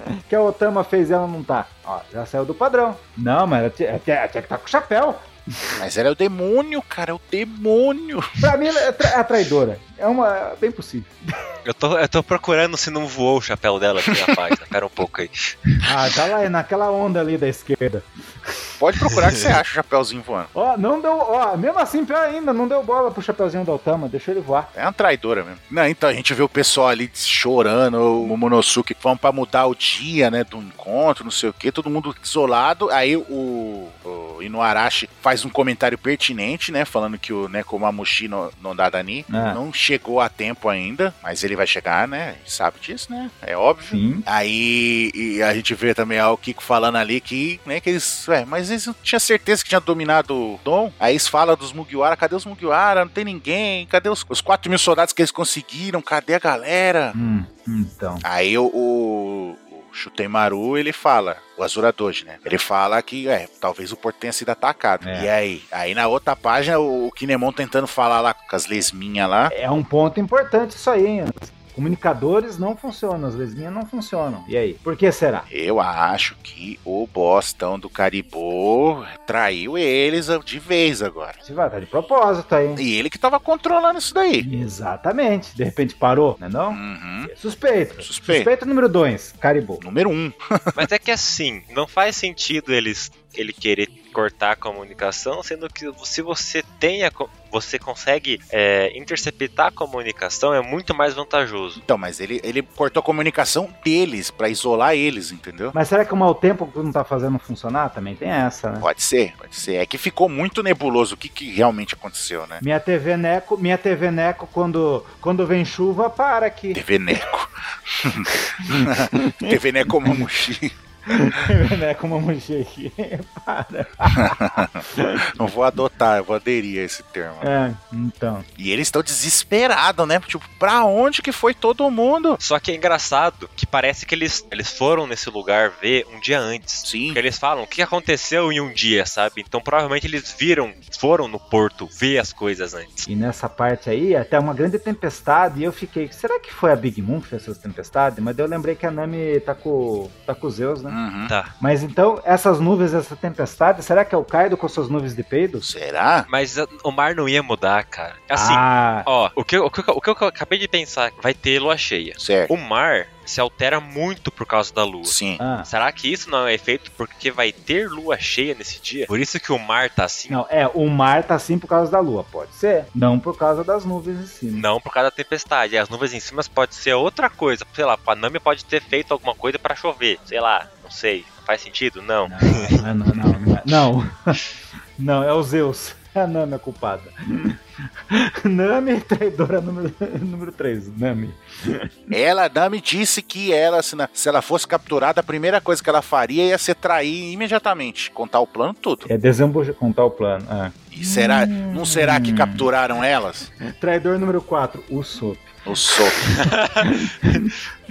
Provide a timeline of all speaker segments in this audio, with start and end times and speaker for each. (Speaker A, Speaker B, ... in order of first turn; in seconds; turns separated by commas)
Speaker A: 0.2-5.8, Speaker B: 5.8-8.4, Speaker A: 8.4-11.2, Speaker C: 11.6-15.8, Speaker B: 14.1-14.4, Speaker A: 15.8-18.5, Speaker B: 18.8-20.5, Speaker C: 19.1-19.5, Speaker A: 20.5-24.7, Speaker B: 24.7-57.1, Speaker A: 39.3-39.6, Speaker A: 43.9-44.2, Speaker A: 57.1-58.2, Speaker B: 58.2-69.5, Speaker A: 65.0-65.3, Speaker A: 69.5-75.5, Speaker B: 75.5-81.4, Speaker A: 81.4-82.8, Speaker B: 82.8-84.5, Speaker A: 84.4-89.8, Speaker B: 86.7-87.3, Speaker B: 88.0-88.5, Speaker B: 89.8-90.8, Speaker C: 90.8-101.8, Speaker B: 101.8-105.7, Speaker A: 105.7-108.9, Speaker B: 108.8-112.6, Speaker A: 112.6-116.8, Speaker B: 116.7-120.7, Speaker A: 118.4-120.2, Speaker A: 121.1-125.3, Speaker B: 124.1-127.5, Speaker A: 127.4-128.5, Speaker B: 128.6-132.4, Speaker C: 132.4-143.1, Speaker B: 136.8-137.2, Speaker A: 143.1-151.0, Speaker B: 150.9-151.3, Speaker A: 151.6-155.7, Speaker B: 155.6-156.3, Speaker C: 156.3-170.4, Speaker A: 158.3-159.1, Speaker B: 162.2-162.5, Speaker B: 165.0-165.4, Speaker A: 165.4-165.7, Speaker A: 170.3-174.7, Speaker C: 174.5-183.5, Speaker A: 182.3-184.4, Speaker A: 185.0-187.6, Speaker A: 188.1-192.1, Speaker B: 192.1-199.1, Speaker A: 199.1-202.7, Speaker B: 200.9-203.5, Speaker A: 203.6-205.5, Speaker B: 205.7-206.2, Speaker C: 206.2-207.5, Speaker A: 206.8-207.5